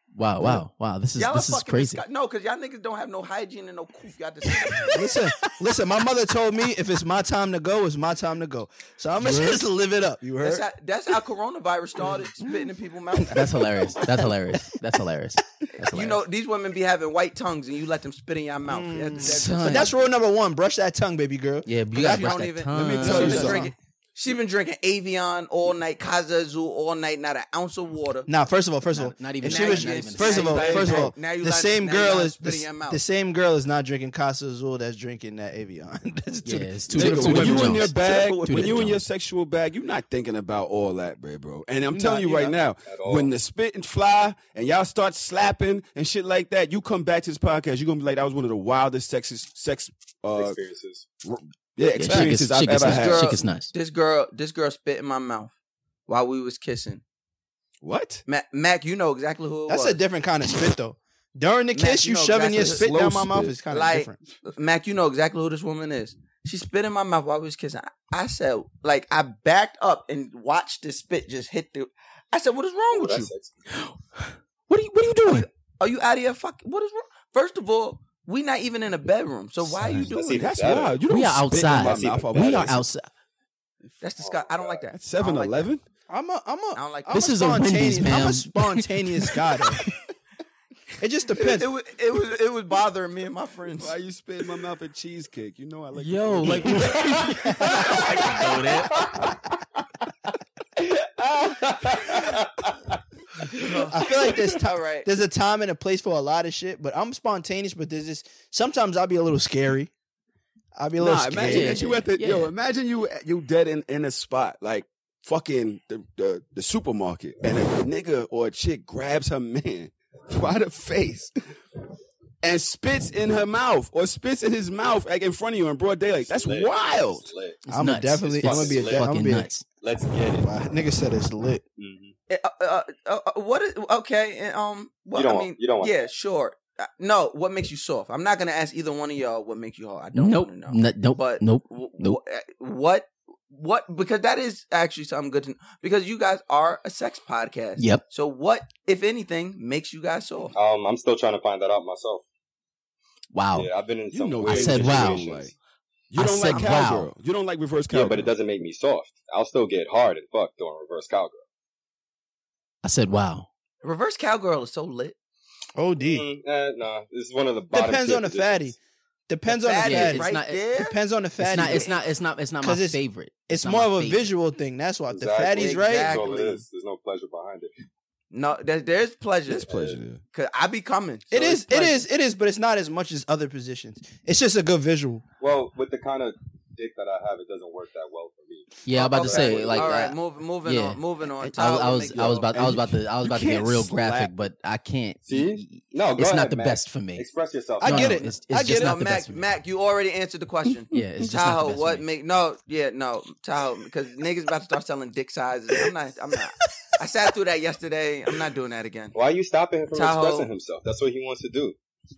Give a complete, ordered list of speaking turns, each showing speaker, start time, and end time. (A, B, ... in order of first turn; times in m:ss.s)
0:00.1-0:02.0 A
0:01.2-0:05.0 B
0:04.9-0:10.6 C
0:09.2-0:09.6 A
0:10.4-0:13.4 B
0:13.3-0:16.2 A
0:14.0-0:14.3 C
0:15.8-0:20.0 B
0:18.7-0:22.4 C
0:19.2-0:19.9 A
0:21.6-0:23.6 A
0:21.9-0:28.3 B
0:22.7-0:23.7 D
0:23.0-0:23.7 C
0:28.3-0:38.8 C
0:28.9-0:31.0 A
0:29.4-0:33.0 B
0:30.4-0:31.1 D
0:36.4-0:39.0 A
0:36.9-0:50.6 D
0:41.9-0:42.5 C
0:42.8-0:43.3 E
0:50.4-0:51.0 E
0:51.2-0:53.4 D
0:51.9-0:53.7 A
0:52.8-0:55.5 B
0:56.1-0:57.0 B
0:57.8-0:58.2 D
0:58.3-1:00.0 B
0:59.7-1:04.2 C
1:01.7-1:02.9 B
1:02.5-1:03.6 D
1:03.7-1:13.3 B
1:12.9-1:13.5 E
1:13.7-1:15.5 A
1:15.2-1:20.5 B
1:19.8-1:20.1 A
1:19.9-1:22.8 D
1:20.0-1:21.0 E
1:21.1-1:23.0 A
1:21.6-1:22.8 E
1:24.0-1:25.7 B
1:24.2-1:24.8 E
1:24.9-1:25.8 D
1:26.1-1:29.8 C
1:26.7-1:27.2 B
1:27.1-1:29.4 A
1:31.0-1:31.7 C
1:31.4-1:34.0 B
1:33.8-1:37.0 D
1:35.9-1:39.0 A
1:36.7-1:37.4 E
1:37.6-1:38.0 C
1:38.9-1:39.3 E
1:41.0-1:43.0 E
1:43.5-1:45.1 B
1:43.9-1:49.9 C
1:50.8-1:51.8 C
1:51.0-2:01.3 D
1:51.4-1:52.5 A
2:02.4-2:07.3 D
2:06.2-2:07.6 E
2:07.7-2:09.6 A
2:07.7-2:09.5 C
2:08.2-2:09.1 E
2:09.8-2:10.5 E
2:10.4-2:11.6 C
2:11.8-2:12.1 E
2:12.3-2:30.5 B
2:15.1-2:16.0 E
2:20.1-2:22.2 A
2:27.8-2:28.0 A
2:30.5-2:32.2 E
2:33.3-2:33.7 A
2:33.5-2:35.5 E
2:34.1-2:35.5 D
2:34.4-2:35.2 A
2:36.1-2:38.3 D
2:36.2-2:37.1 A
2:37.9-2:41.4 E
2:42.8-2:43.5 A
2:43.8-2:45.2 B
2:45.8-2:46.2 C
2:46.0-2:48.7 E
2:47.7-2:48.8 C
2:49.3-2:51.9 C
2:49.5-2:51.0 B
2:49.8-2:50.6 A
2:51.4-2:54.3 A
2:51.6-2:51.9 B
2:52.6-2:56.4 C
2:55.1-2:57.7 E
2:55.5-2:56.6 B
2:58.3-2:59.7 B
2:59.5-3:00.2 D
2:59.7-3:00.0 E
3:00.3-3:02.1 B
3:01.3-3:05.2 C
3:05.4-3:10.0 E
3:08.8-3:11.0 A
3:08.9-3:12.5 B
3:11.5-3:17.2 A
3:12.2-3:14.3 D
3:15.2-3:18.2 E
3:17.8-3:19.0 C
3:17.8-3:19.4 A
3:18.7-3:29.1 B
3:20.9-3:22.0 A
3:29.1-3:31.8 E
3:29.9-3:30.5 B